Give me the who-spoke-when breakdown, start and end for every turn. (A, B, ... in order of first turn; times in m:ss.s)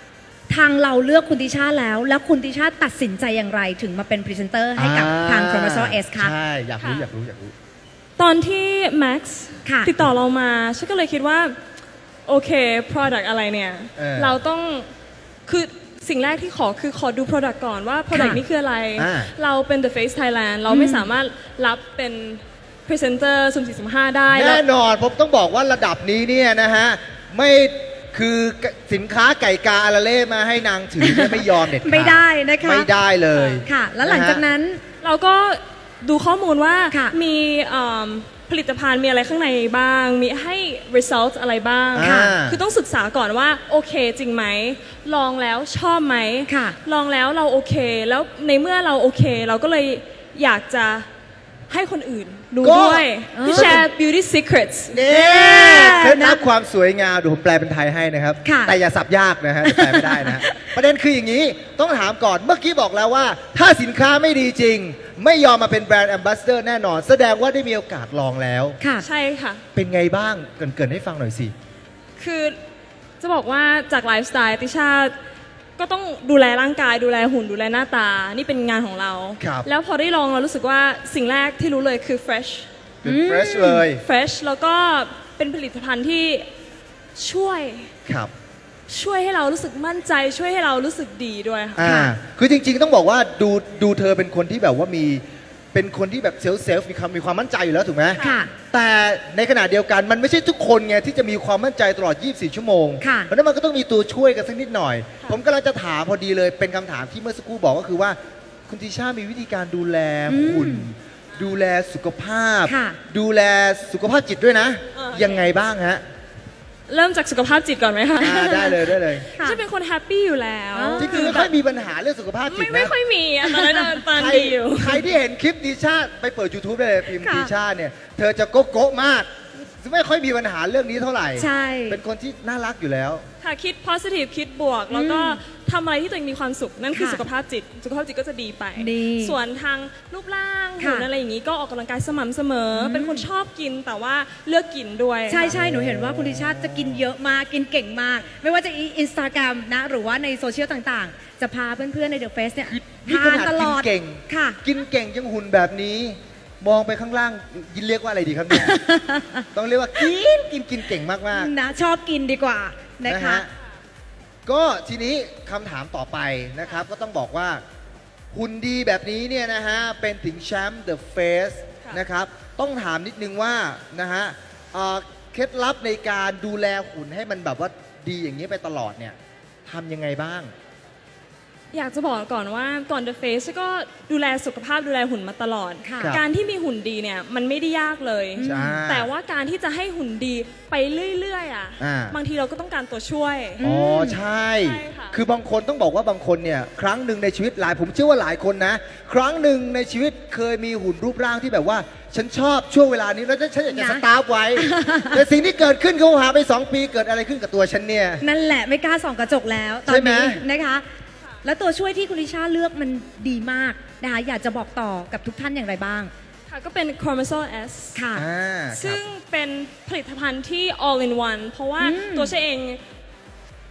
0:00.5-0:06.3 A
0:04.8-0:07.6 B
0:06.8-0:07.1 C
0:08.2-0:11.6 C
0:09.6-0:09.9 A
0:12.3-0:14.9 C
0:14.0-0:14.4 B
0:15.5-0:24.6 C
0:18.1-0:18.4 A
0:19.0-0:19.3 B
0:20.7-0:21.1 A
0:24.3-0:34.4 B
0:31.0-0:32.9 A
0:33.3-0:33.6 C
0:33.6-0:34.8 A
0:35.0-0:51.1 C
0:41.9-0:42.6 B
0:42.0-0:42.3 A
0:46.5-0:46.8 A
0:51.7-0:56.0 C
0:52.5-0:52.8 A
0:52.6-0:53.8 B
0:53.3-0:53.8 A
0:54.9-1:08.8 B
0:55.4-0:56.4 A
0:58.4-0:58.8 A
0:59.6-1:00.7 A
1:09.0-1:09.6 C
1:09.8-1:11.5 B
1:12.2-1:12.6 C
1:13.2-1:15.1 C
1:15.8-1:22.7 C
1:19.4-1:19.7 B
1:23.0-1:24.0 B
1:23.0-1:23.8 A
1:23.9-1:26.5 C
1:27.2-1:27.9 C
1:28.1-1:28.3 B
1:28.9-1:32.0 C
1:31.8-1:38.2 B
1:31.8-1:32.1 A
1:38.1-1:38.5 C
1:38.2-1:38.5 A
1:38.7-1:56.0 B
1:43.0-1:43.3 A
1:50.3-1:50.9 A
1:52.7-1:53.0 A
1:55.0-1:55.4 C
1:56.9-2:01.5 C
1:58.2-1:59.3 B
1:58.4-1:58.8 A
2:00.7-2:01.4 A
2:01.0-2:02.9 B
2:02.5-2:05.1 C
2:03.4-2:04.0 A
2:04.1-2:13.3 B
2:07.1-2:07.5 A
2:11.4-2:12.0 A
2:13.4-2:25.5 C
2:14.9-2:15.4 A
2:16.9-2:17.2 A
2:18.8-2:19.4 A
2:20.8-2:21.1 A
2:22.7-2:23.3 A
2:25.3-2:34.6 A
2:25.4-2:27.1 B
2:32.6-2:38.8 B
2:38.5-2:39.5 A
2:39.5-2:41.5 B
2:41.3-2:43.4 A
2:43.1-2:43.5 B
2:44.5-2:47.6 B
2:48.3-3:00.5 B
3:01.7-3:13.6 C
3:05.8-3:06.2 A
3:08.4-3:08.8 A
3:08.4-3:09.1 B
3:11.8-3:12.2 B
3:13.6-3:14.2 A
3:13.6-3:28.2 B
3:14.6-3:15.2 C
3:23.7-3:24.0 A
3:24.6-3:25.2 A
3:28.2-3:30.9 A
3:29.9-3:30.4 B
3:31.4-3:36.1 A
3:36.5-3:38.0 C
3:38.0-3:38.2 A
3:38.2-3:39.0 B
3:38.7-3:42.8 C
3:41.8-3:42.3 A